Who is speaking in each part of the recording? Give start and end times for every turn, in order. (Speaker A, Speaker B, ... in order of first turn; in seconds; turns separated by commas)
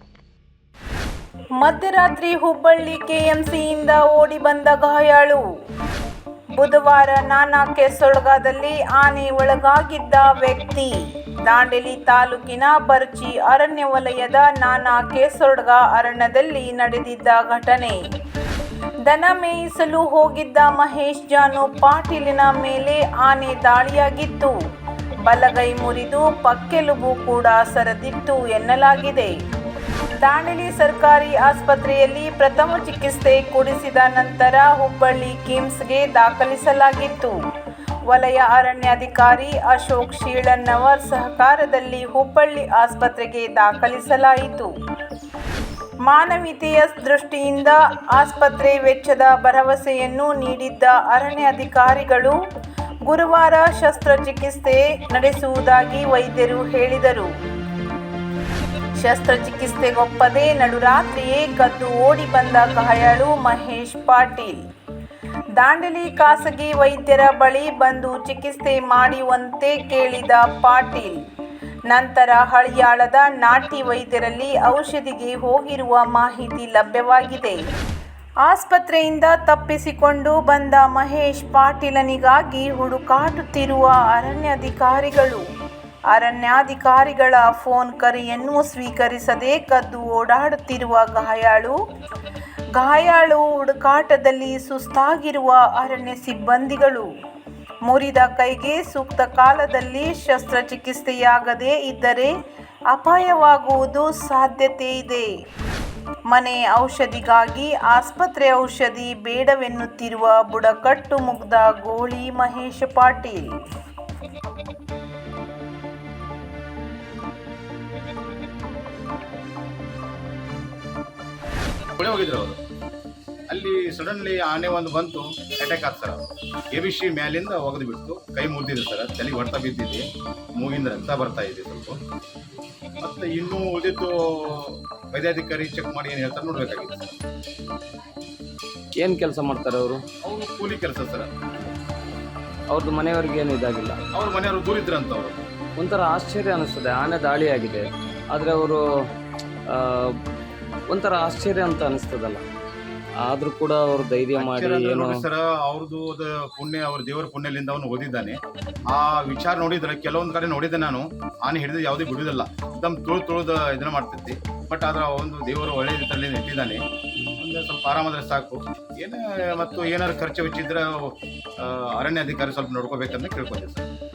Speaker A: 1.6-5.4, Speaker A: 6.6-10.9, Speaker A: 11.5-18.0, Speaker A: 19.1-24.6, Speaker A: 25.2-29.3, Speaker A: 30.2-37.4, Speaker A: 38.1-44.7, Speaker A: 46.0-52.4, Speaker A: 53.1-57.3, Speaker A: 59.0-64.6, Speaker A: 65.6-71.2, Speaker A: 71.9-77.6, Speaker A: 78.4-85.4, Speaker A: 86.1-91.8, Speaker A: 92.8-97.1, Speaker A: 97.9-102.3, Speaker A: 102.9-105.3, Speaker A: 106.3-113.5, Speaker B: 122.0-122.6, Speaker B: 123.5-130.1, Speaker B: 130.6-132.0, Speaker B: 133.0-137.2, Speaker C: 139.0-140.0, Speaker B: 140.2-141.3, Speaker C: 142.7-144.0, Speaker B: 144.1-145.4, Speaker C: 145.8-148.8, Speaker C: 149.7-150.1, Speaker C: 150.9-152.4, Speaker C: 153.2-155.2, Speaker B: 154.3-158.4, Speaker B: 158.9-166.8, Speaker B: 167.4-173.9